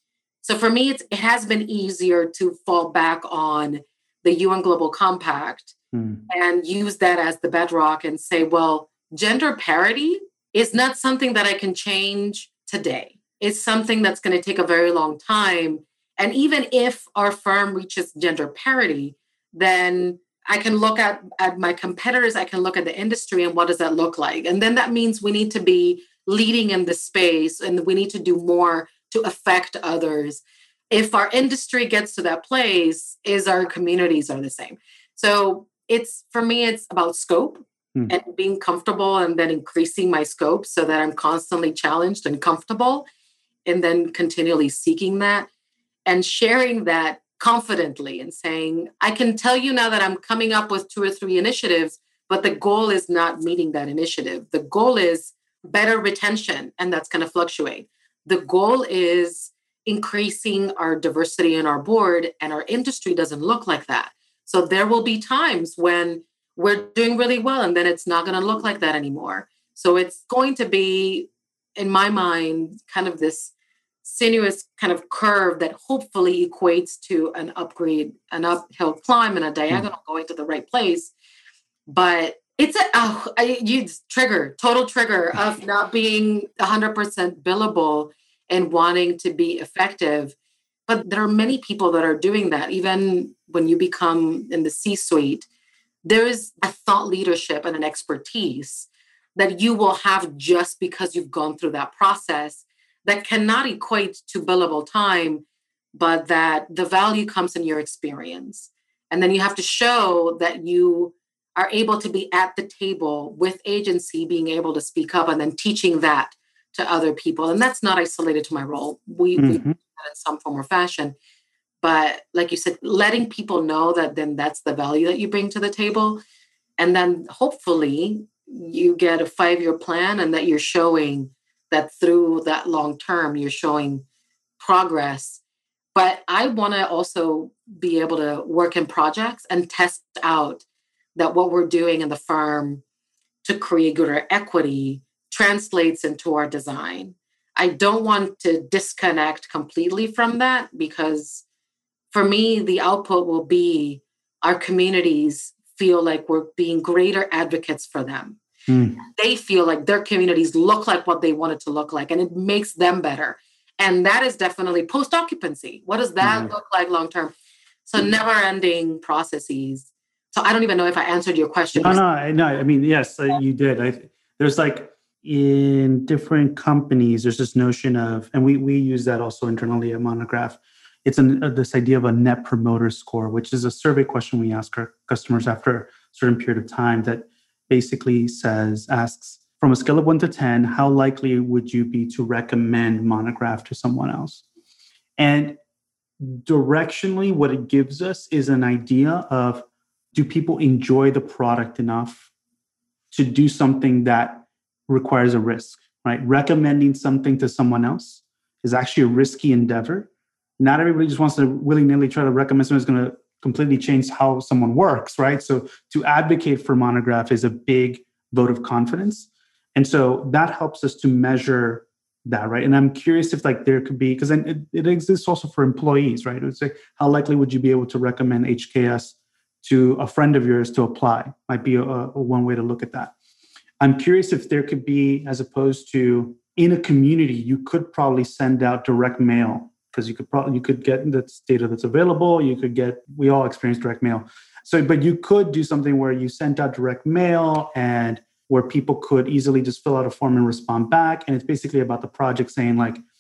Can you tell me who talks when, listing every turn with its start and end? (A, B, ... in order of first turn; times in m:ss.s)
0:00.4-0:05.8 A
0:05.9-0:06.2 B
0:06.3-0:43.1 A
0:43.7-0:45.5 A
0:46.1-1:13.5 A
1:14.0-1:21.1 A
1:21.9-1:30.4 A
1:30.9-1:35.5 A
1:36.0-2:01.2 A
1:59.4-1:59.8 B
2:01.8-2:06.2 A
2:06.8-2:14.0 A
2:14.6-2:15.4 A
2:15.9-2:20.6 A
2:21.2-2:22.8 A
2:23.4-2:31.4 A
2:32.1-2:38.4 A
2:38.7-2:39.0 B
2:39.0-2:47.3 A
2:46.2-2:46.5 B
2:47.9-2:52.0 A
2:51.8-3:14.4 B
3:15.2-3:15.6 B
3:16.2-3:22.3 B
3:23.1-3:53.1 B
3:53.8-4:13.0 B